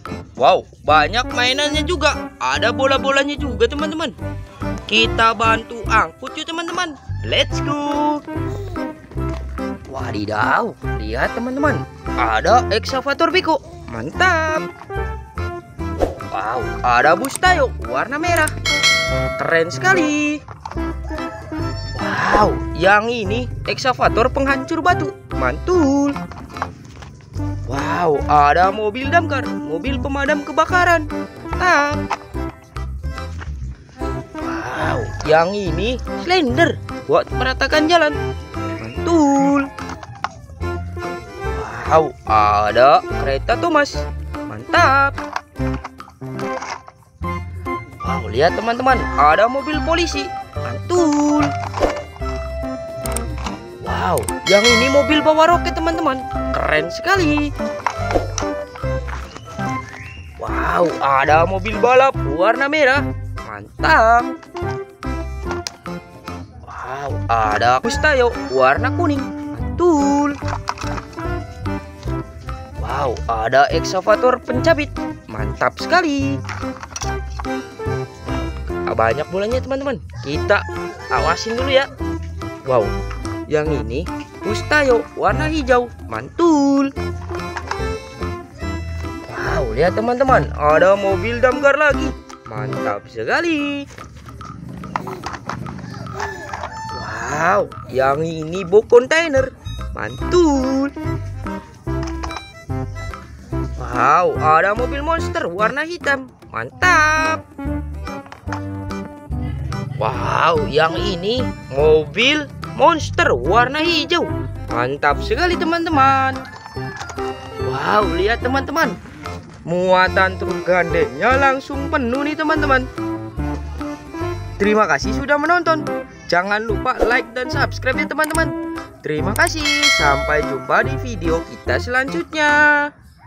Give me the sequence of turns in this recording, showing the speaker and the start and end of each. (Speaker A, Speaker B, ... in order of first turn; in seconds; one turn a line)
Speaker A: 0.4-4.2
Speaker A: 4.9-8.2
Speaker A: 9.9-14.7
Speaker A: 16.3-18.5
Speaker A: 19.4-20.4
Speaker A: 21.9-26.2
Speaker A: 27.7-32.0
Speaker A: 34.4-38.1
Speaker A: 38.7-39.7
Speaker A: 41.5-45.1
Speaker A: 48.0-51.5
Speaker A: 53.8-57.5
Speaker A: 60.4-64.3
Speaker A: 66.7-70.4
Speaker A: 72.8-76.4
Speaker A: 78.2-81.9
Speaker A: 82.6-82.9
Speaker A: 83.5-86.9
Speaker A: 89.3-93.8
Speaker A: 96.9-100.9
Speaker A: 103.8-107.4
Speaker A: 110.0-116.4
Speaker A: 117.6-119.0
Speaker A: 119.7-122.9
Speaker A: 124.6-132.9